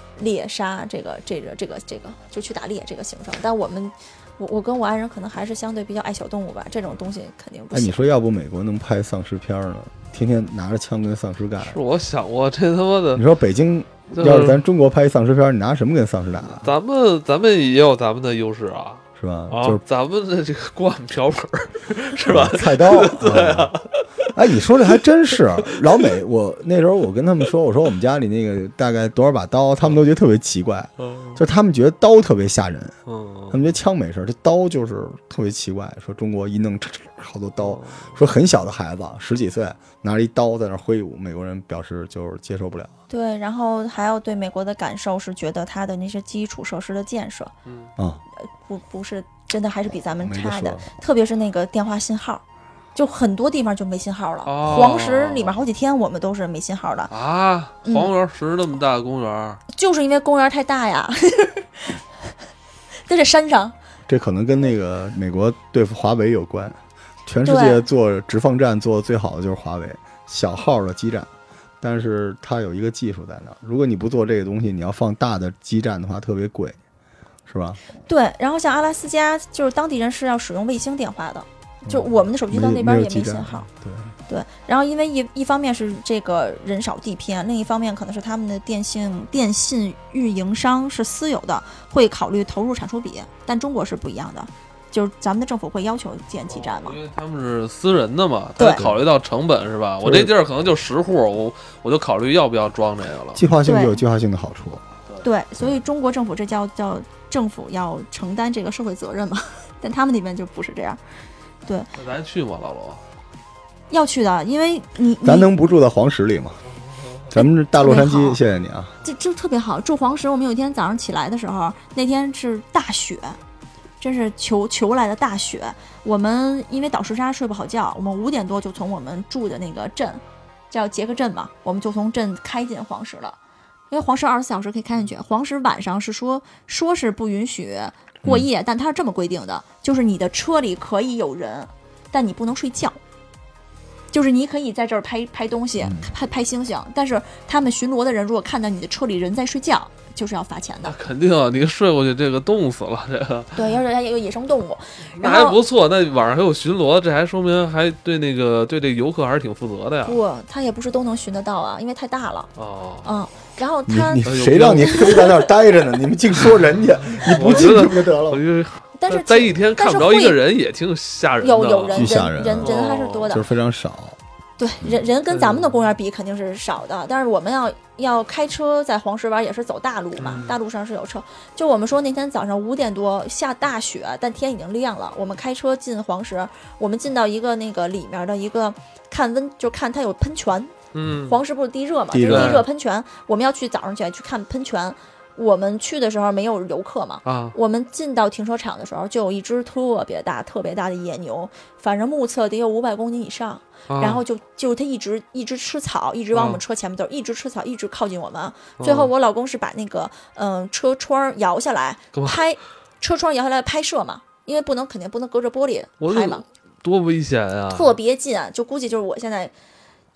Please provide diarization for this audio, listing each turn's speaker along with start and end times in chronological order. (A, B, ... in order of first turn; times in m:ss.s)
0:00.2-0:08.0 A
0:07.7-0:11.8 B
0:11.6-0:13.2 C
0:13.1-0:16.7 B
0:14.1-0:14.6 C
0:16.5-0:26.1 C
0:19.2-0:19.8 B
0:22.3-0:23.7 B
0:24.3-0:32.9 B
0:31.0-0:31.4 C
0:33.0-0:33.7 C
0:33.5-0:42.9 B
0:37.6-0:38.2 C
0:43.1-0:47.5 A
0:47.6-0:47.9 C
0:48.4-0:52.4 A
0:50.2-0:50.9 B
0:52.9-0:57.1 A
0:54.4-0:55.6 C
0:57.1-0:59.6 C
0:57.8-0:58.1 A
0:59.7-1:02.0 A
1:03.0-1:03.7 A
1:04.1-1:11.3 B
1:07.4-1:07.8 A
1:11.8-1:16.8 B
1:17.5-1:17.8 B
1:18.0-1:23.7 A
1:21.8-1:24.1 B
1:24.3-1:37.0 A
1:36.5-1:43.4 C
1:38.6-1:39.0 B
1:40.0-1:40.3 B
1:43.3-1:44.8 B
1:43.6-1:44.0 A
1:45.2-1:51.0 A
1:51.9-1:53.0 C
1:53.9-1:55.5 A
1:55.2-1:56.6 B
1:56.8-1:57.3 C
1:57.3-1:58.9 B
1:57.3-1:58.4 A
1:59.0-2:03.4 A
2:04.0-2:13.4 A
2:13.9-2:23.0 A
2:24.1-2:31.0 A
2:25.8-2:26.1 B
2:30.8-2:33.7 C
2:33.6-2:35.6 A
2:35.1-2:40.2 C
2:40.0-2:42.5 A
2:42.6-2:43.1 C
2:43.0-2:44.2 A
2:43.9-2:48.4 B
2:44.2-2:45.2 C
2:44.8-2:45.4 A
2:47.0-2:53.4 C
2:49.0-2:50.4 A
2:51.4-2:53.4 A
2:51.9-2:52.7 B
2:53.3-2:54.2 B
2:54.6-3:36.4 A
2:55.3-2:55.9 C
3:00.2-3:00.6 C
3:10.9-3:11.4 C
3:12.1-3:12.7 B
3:12.3-3:12.6 C
3:17.2-3:17.5 C
3:23.9-3:24.2 C
3:26.3-3:26.6 C
3:28.8-3:29.1 C
3:32.1-3:32.4 C
3:36.0-3:38.0 C
3:37.7-3:39.5 A